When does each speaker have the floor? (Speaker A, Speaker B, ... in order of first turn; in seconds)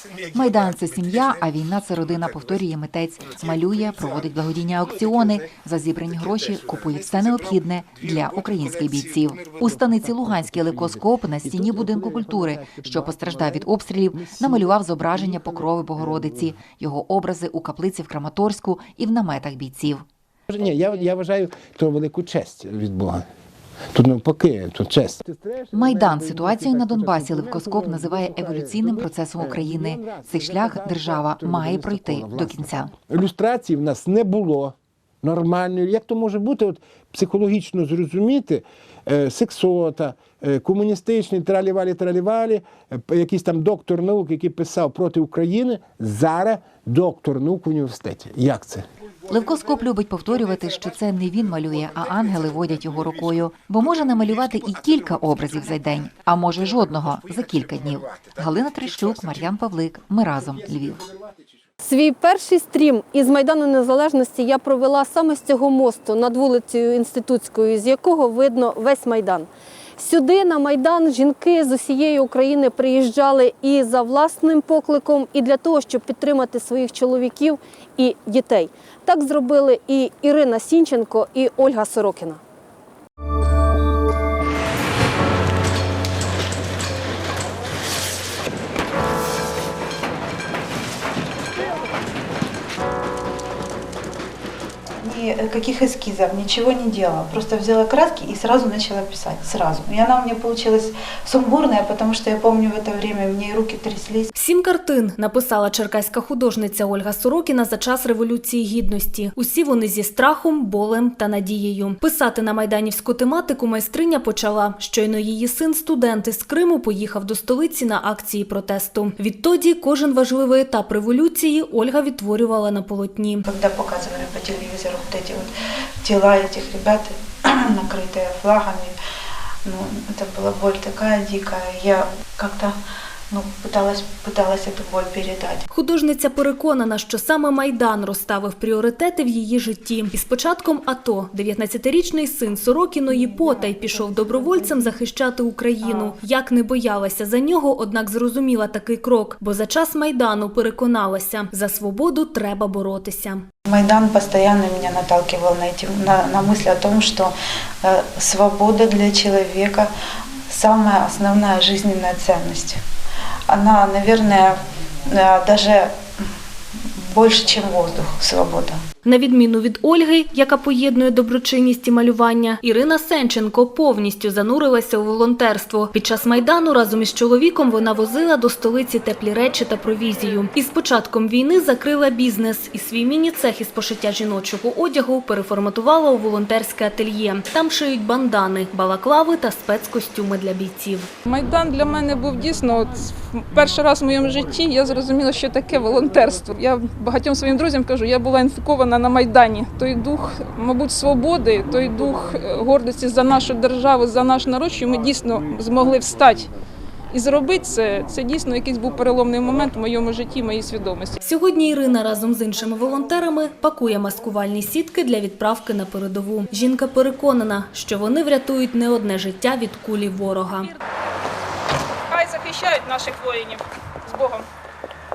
Speaker A: 0.3-20.0, 25.7-32.9, 49.3-61.1
Speaker B: 9.5-16.5, 20.5-23.2, 23.9-48.9
Speaker C: 61.8-82.4
Speaker D: 95.0-104.3, 123.5-125.5, 126.0-128.9, 129.6-132.7, 133.3-135.6, 143.1-144.9, 145.8-146.2, 153.7-159.9, 160.5-162.8, 163.5-164.6, 165.1-165.9, 167.1-168.8
Speaker E: 104.3-123.4, 135.7-153.4, 169.0-191.1, 211.2-220.7
Speaker F: 191.2-206.5, 207.1-211.2, 222.1-224.4